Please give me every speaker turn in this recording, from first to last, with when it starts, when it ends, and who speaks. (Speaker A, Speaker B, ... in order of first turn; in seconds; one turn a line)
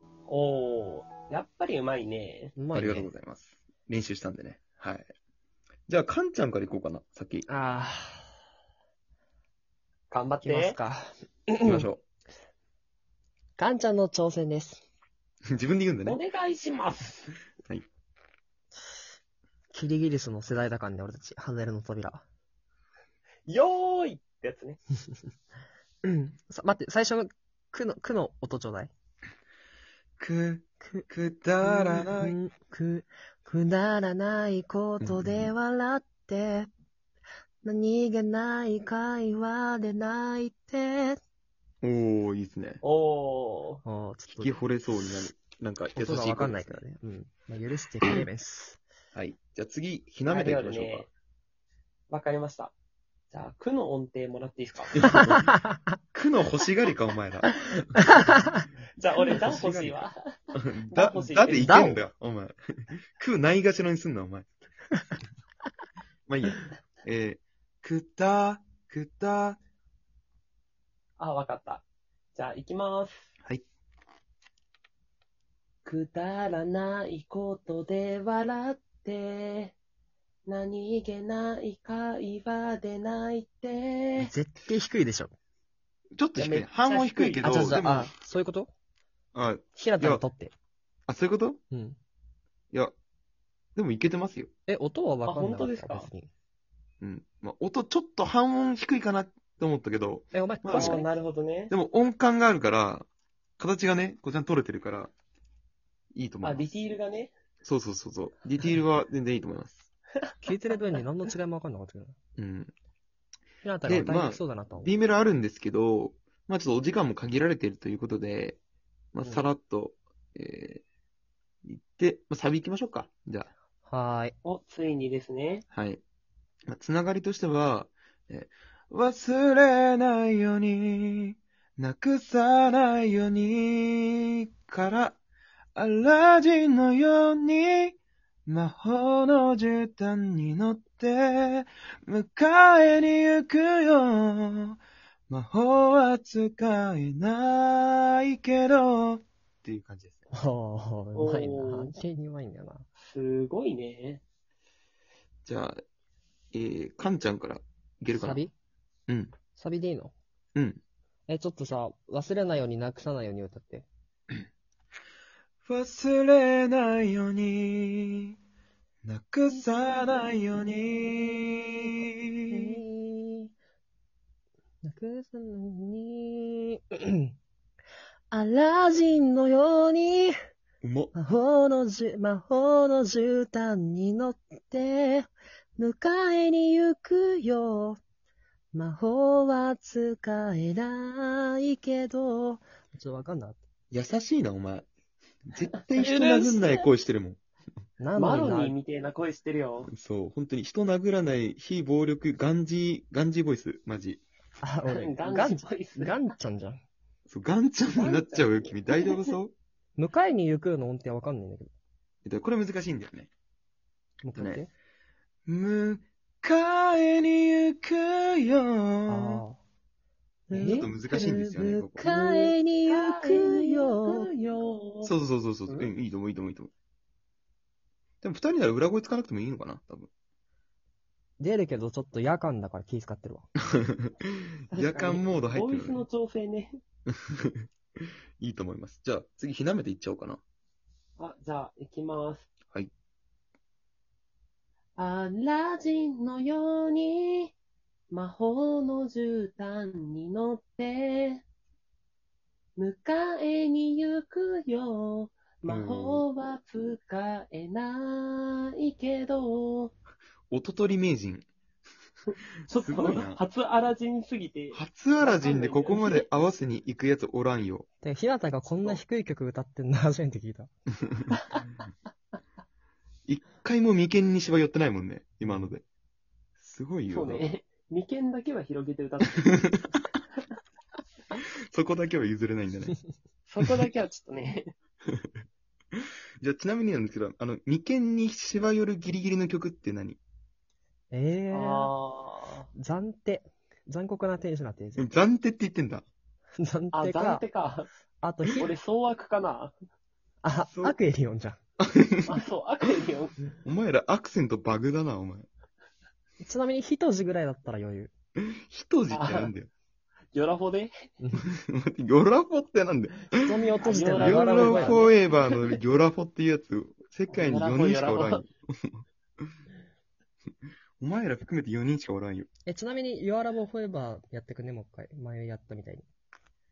Speaker A: 0.3-2.5
Speaker B: 2.5-3.1
Speaker C: 2.7-5.1
Speaker C: 5.9-7.5
Speaker B: 7.5-8.3
Speaker A: 10.1-10.8
Speaker B: 10.4-11.9
Speaker C: 11.6-12.0
Speaker B: 13.6-14.8
Speaker C: 15.5-16.2
Speaker A: 16.0-17.3
Speaker B: 19.7-22.2
Speaker A: 23.5-24.8
Speaker B: 26.0-28.9
Speaker C: 30.2-32.4
Speaker B: 30.8-31.1
Speaker B: 31.6-36.7
Speaker C: 35.0-35.5
Speaker B: 37.6-41.2
Speaker C: 41.8-42.8
Speaker A: 42.8-43.8
Speaker B: 43.8-44.6
Speaker C: 44.3-46.8
Speaker B: 45.9-48.8
Speaker C: 49.1-51.0
Speaker A: 50.2-51.1
Speaker A: 52.1-52.7
Speaker A: 53.3-55.0
Speaker C: 54.9-55.5
Speaker B: 55.0-55.8
Speaker C: 56.1-57.8
Speaker B: 58.0-58.6
Speaker A: 59.0-60.2
Speaker C: 59.4-60.0
Speaker C: 60.5-64.5
Speaker A: 60.9-61.9
Speaker B: 61.5-62.0
Speaker C: 66.3-69.6
Speaker A: 71.2-73.3
Speaker A: 75.8-79.7
Speaker A: 80.5-84.3
Speaker B: 84.2-85.3
Speaker C: 86.2-88.1
Speaker A: 86.3-87.7
Speaker B: 87.4-88.7
Speaker C: 89.3-90.2
Speaker B: 89.7-90.5
Speaker C: 91.1-91.6
Speaker B: 91.7-92.0
Speaker C: 93.7-94.5
Speaker B: 94.7-96.3
Speaker A: 95.2-96.1
Speaker C: 97.0-101.0
Speaker B: 100.3-101.0
Speaker A: 100.7-101.7
Speaker C: 101.7-103.1
Speaker C: 103.6-105.1
Speaker C: 106.1-106.7
Speaker A: 106.4-107.3
Speaker C: 107.6-109.9
Speaker B: 110.4-112.2
Speaker C: 112.4-112.7
Speaker B: 113.6-115.0
Speaker C: 113.8-118.6
Speaker C: 119.1-120.8
Speaker C: 121.6-123.5
Speaker B: 123.8-124.3
Speaker A: 124.4-125.6
Speaker C: 125.7-126.0
Speaker C: 126.7-135.2
Speaker C: 135.8-150.3
Speaker B: 150.3-152.9
Speaker A: 151.1-151.9
Speaker A: 153.0-154.2
Speaker C: 155.4-155.8
Speaker C: 156.5-158.4
Speaker B: 158.1-158.5
Speaker C: 159.1-159.3
Speaker B: 159.5-160.1
Speaker C: 160.5-160.8
Speaker B: 161.3-163.9
Speaker C: 165.6-168.3
Speaker C: 169.0-172.8
Speaker B: 172.5-173.5
Speaker B: 174.8-177.3
Speaker B: 178.3-180.3
Speaker C: 180.8-181.1
Speaker B: 181.1-188.0
Speaker B: 188.7-193.6
Speaker C: 193.9-194.9
Speaker C: 195.4-197.4
Speaker A: 195.9-196.9
Speaker B: 198.0-198.7
Speaker A: 198.2-199.9
Speaker C: 199.9-204.2
Speaker B: 204.6-206.8
Speaker A: 204.8-206.1
Speaker C: 207.3-209.5
Speaker A: 207.9-209.2
Speaker B: 209.9-211.7
Speaker C: 212.2-213.3
Speaker B: 214.2-214.7
Speaker C: 214.3-214.6
Speaker C: 215.4-219.4
Speaker B: 219.1-219.6
Speaker B: 220.5-224.3
Speaker C: 220.5-222.0
Speaker A: 222.0-225.1
Speaker C: 225.0-226.7
Speaker C: 228.2-230.1
Speaker B: 231.4-233.5
Speaker C: 233.8-236.0
Speaker B: 234.7-235.3
Speaker A: 235.5-236.8
Speaker C: 237.1-237.7
Speaker C: 238.4-240.4
Speaker A: 241.2-242.5
Speaker A: 245.0-247.5
Speaker A: 248.1-251.4
Speaker A: 252.8-259.9
Speaker C: 255.7-256.2
Speaker C: 260.5-261.5
Speaker A: 262.7-266.3
Speaker C: 262.7-263.4
Speaker C: 264.7-267.9
Speaker B: 268.0-270.7
Speaker C: 273.3-275.8
Speaker B: 275.4-275.7
Speaker C: 276.6-277.4
Speaker A: 277.1-279.7
Speaker C: 281.4-283.0
Speaker A: 283.5-284.7
Speaker C: 285.9-290.2
Speaker B: 291.1-291.9
Speaker A: 291.5-292.7
Speaker B: 292.7-295.2
Speaker C: 294.9-296.1
Speaker B: 296.6-297.4
Speaker A: 296.9-297.9
Speaker B: 298.2-298.7
Speaker A: 298.6-299.7
Speaker B: 300.4-301.6
Speaker C: 300.7-301.0
Speaker C: 301.8-302.4
Speaker A: 302.2-303.3
Speaker C: 303.6-305.5
Speaker B: 306.4-308.1
Speaker C: 308.4-309.7
Speaker A: 309.1-309.5
Speaker A: 310.3-310.9
Speaker B: 311.2-311.5
Speaker C: 311.6-319.0
Speaker B: 313.4-315.1
Speaker A: 313.8-315.8
Speaker A: 317.3-318.4
Speaker C: 321.0-322.5
Speaker B: 322.6-326.1